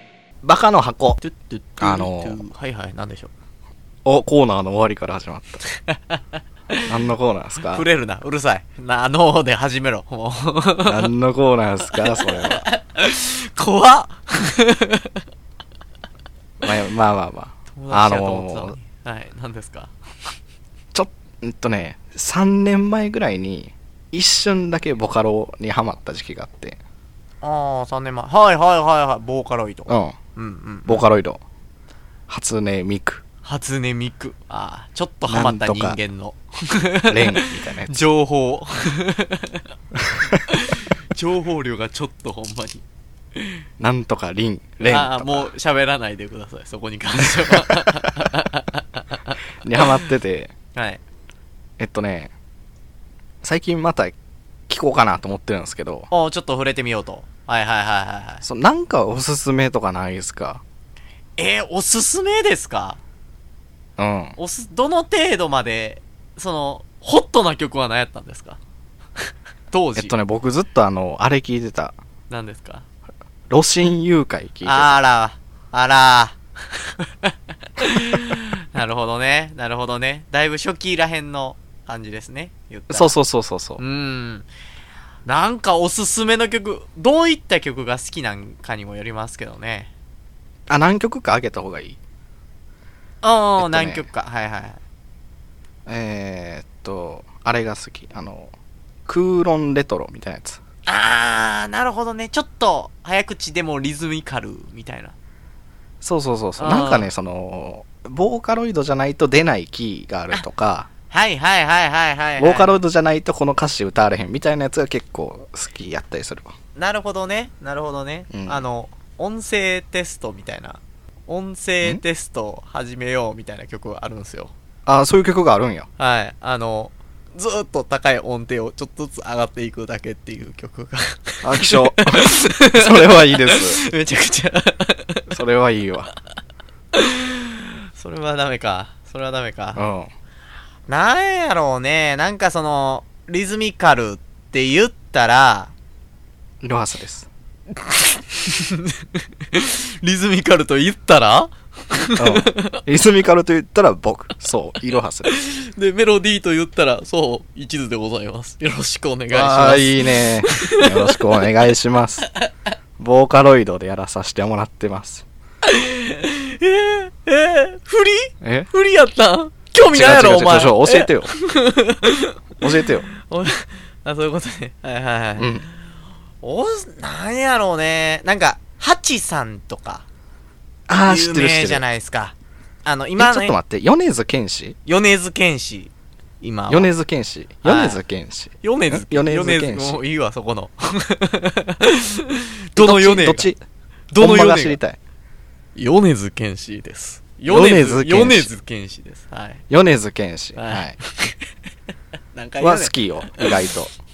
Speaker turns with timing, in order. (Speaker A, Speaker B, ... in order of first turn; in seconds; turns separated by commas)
Speaker A: 0.4-1.2, Speaker B: 1.2-3.3, Speaker A: 1.8-2.4, Speaker A: 4.0-5.6, Speaker B: 5.7-6.9, Speaker A: 6.8-7.9, Speaker B: 7.6-11.1, Speaker A: 10.8-12.7, Speaker B: 11.9-15.2, Speaker A: 16.6-18.8, Speaker B: 17.8-20.3, Speaker A: 20.9-26.8, Speaker B: 27.4-31.1, Speaker A: 29.9-30.1, Speaker A: 30.9-31.4, Speaker A: 32.3-33.2, Speaker B: 33.4-39.7, Speaker A: 35.3-36.0, Speaker A: 37.1-38.1, Speaker B: 40.3-42.8, Speaker A: 43.8-45.5, Speaker B: 44.8-49.9, Speaker A: 49.6-50.5, Speaker B: 50.7-51.0, Speaker A: 51.8-52.3, Speaker A: 53.4-54.1, Speaker A: 54.7-56.1, Speaker B: 56.1-58.4, Speaker A: 58.4-60.6, Speaker B: 61.4-63.0, Speaker A: 64.0-64.4, Speaker B: 64.4-68.6, Speaker B: 69.2-70.1, Speaker A: 70.0-72.0, Speaker B: 72.3-72.9, Speaker A: 73.5-75.0, Speaker B: 74.6-83.2, Speaker A: 82.9-83.8, Speaker B: 83.8-84.5, Speaker B: 85.2-89.9, Speaker A: 90.7-92.0, Speaker B: 93.2-94.8, Speaker A: 93.6-94.1, Speaker A: 95.9-98.5, Speaker A: 99.1-100.6, Speaker B: 100.9-105.2, Speaker A: 106.0-110.9, Speaker B: 106.6-107.1, Speaker B: 111.1-112.7, Speaker A: 112.4-116.5, Speaker B: 116.8-124.5, Speaker A: 118.3-118.7, Speaker A: 124.9-125.9, Speaker B: 126.0-135.4, Speaker A: 131.4-133.8, Speaker A: 135.3-136.1, Speaker B: 136.9-139.8, Speaker A: 139.8-140.1, Speaker B: 140.9-145.7, Speaker A: 146.6-147.3, Speaker B: 147.8-152.8, Speaker A: 152.2-155.3, Speaker B: 155.2-161.2, Speaker A: 159.3-162.3, Speaker B: 162.3-162.5, Speaker A: 163.0-165.2, Speaker B: 165.7-175.7, Speaker A: 168.4-168.7, Speaker A: 169.9-171.3, Speaker A: 172.6-173.1, Speaker A: 175.4-175.7, Speaker B: 176.4-180.1, Speaker A: 180.9-181.9, Speaker B: 181.0-183.6, Speaker A: 183.2-184.8, Speaker B: 184.8-186.9, Speaker A: 186.7-190.0, Speaker B: 187.6-188.0, Speaker B: 188.6-193.5, Speaker A: 192.8-193.6, Speaker B: 194.1-194.8, Speaker A: 194.2-195.0, Speaker B: 195.8-199.6, Speaker A: 197.5-198.5, Speaker A: 199.7-201.0, Speaker B: 200.6-201.5, Speaker B: 202.3-203.5, Speaker A: 202.6-203.9